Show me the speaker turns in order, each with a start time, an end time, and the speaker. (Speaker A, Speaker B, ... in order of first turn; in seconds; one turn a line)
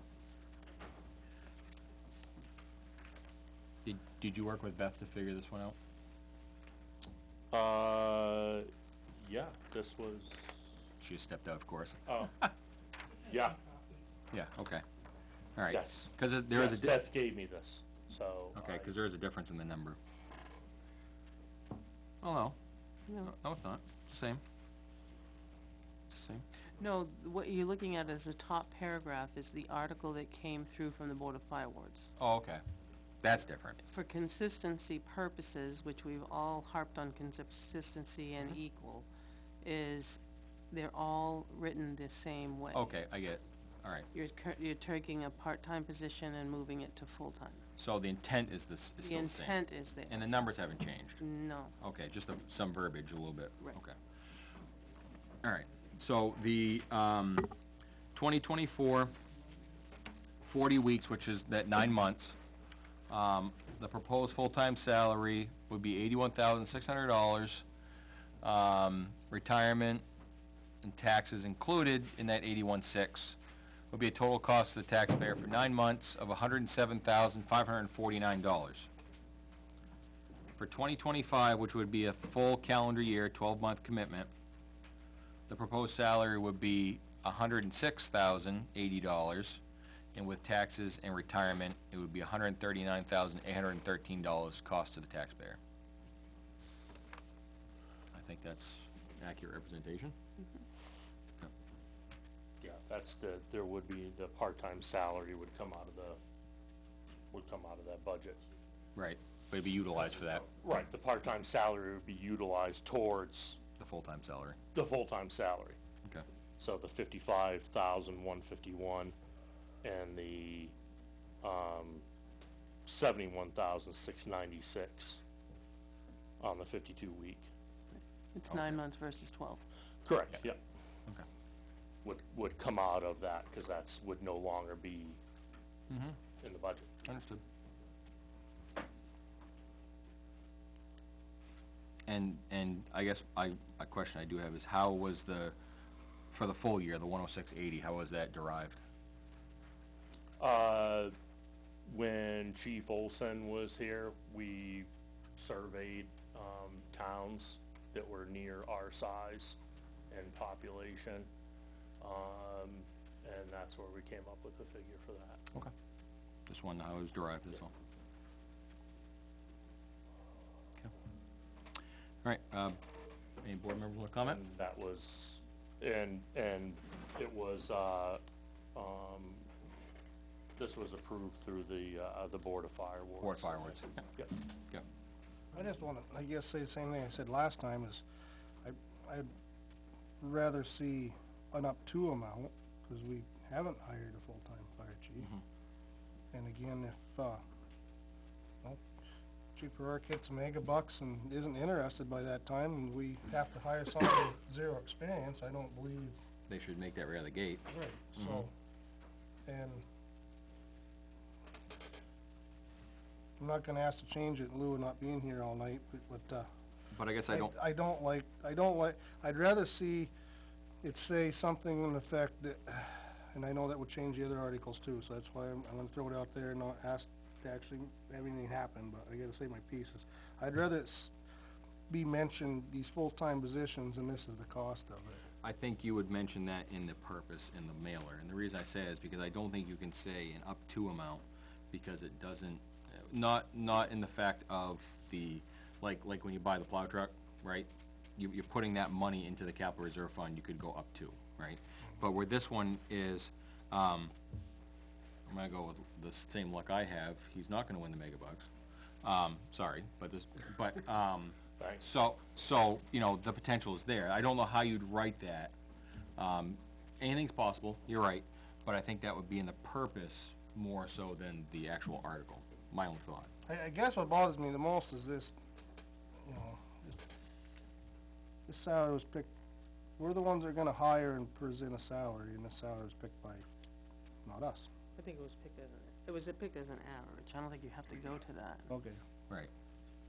Speaker A: 3.9-5.8
Speaker B: 7.5-10.8
Speaker A: 11.0-12.5
Speaker B: 12.1-12.3
Speaker B: 13.2-13.6
Speaker A: 14.3-14.8
Speaker A: 15.6-17.1
Speaker B: 15.7-18.9
Speaker A: 18.6-20.0
Speaker A: 22.2-22.6
Speaker A: 23.2-24.4
Speaker A: 26.1-26.4
Speaker C: 26.8-32.1
Speaker A: 32.2-32.6
Speaker A: 33.2-33.9
Speaker C: 33.9-39.1
Speaker C: 39.6-40.2
Speaker C: 40.7-42.9
Speaker A: 42.7-44.1
Speaker C: 44.1-47.6
Speaker A: 47.8-51.2
Speaker C: 49.0-50.2
Speaker C: 51.2-51.7
Speaker A: 51.8-54.0
Speaker A: 55.4-57.5
Speaker A: 58.1-59.1
Speaker A: 60.4-62.4
Speaker A: 63.1-67.7
Speaker A: 68.4-70.0
Speaker A: 70.8-73.4
Speaker A: 73.9-78.9
Speaker A: 80.6-84.3
Speaker A: 85.5-89.6
Speaker A: 90.1-95.6
Speaker A: 98.1-100.1
Speaker B: 102.6-106.2
Speaker B: 107.3-108.4
Speaker A: 109.0-110.5
Speaker B: 110.6-113.6
Speaker A: 113.8-114.6
Speaker B: 114.7-115.8
Speaker B: 116.6-119.2
Speaker B: 119.8-120.7
Speaker B: 121.4-122.0
Speaker B: 122.9-125.2
Speaker B: 126.4-127.5
Speaker C: 128.3-129.7
Speaker A: 128.5-128.8
Speaker B: 130.1-130.6
Speaker B: 132.0-135.2
Speaker A: 135.9-136.2
Speaker B: 136.4-136.9
Speaker A: 137.1-137.4
Speaker A: 142.1-145.6
Speaker A: 146.3-148.8
Speaker B: 150.4-151.1
Speaker B: 151.9-159.6
Speaker B: 160.1-161.3
Speaker B: 162.0-165.4
Speaker A: 166.5-167.7
Speaker A: 172.2-172.8
Speaker A: 173.4-174.4
Speaker B: 174.2-178.2
Speaker B: 178.8-179.5
Speaker B: 180.6-184.3
Speaker A: 183.2-184.1
Speaker D: 185.5-188.0
Speaker D: 188.6-189.3
Speaker D: 190.2-195.4
Speaker D: 196.3-197.4
Speaker D: 199.6-206.2
Speaker A: 206.5-208.5
Speaker D: 207.7-208.5
Speaker D: 209.5-209.8
Speaker D: 213.4-216.5
Speaker A: 216.9-217.6
Speaker D: 217.3-220.1
Speaker D: 220.8-231.1
Speaker D: 231.9-235.2
Speaker A: 235.4-254.1
Speaker A: 255.3-258.5
Speaker A: 259.0-265.6
Speaker B: 261.6-261.8
Speaker A: 266.2-273.3
Speaker D: 273.5-275.4
Speaker D: 276.2-277.0
Speaker D: 278.5-279.3
Speaker D: 280.0-283.5
Speaker D: 284.2-284.7
Speaker C: 285.0-288.7
Speaker D: 288.7-289.0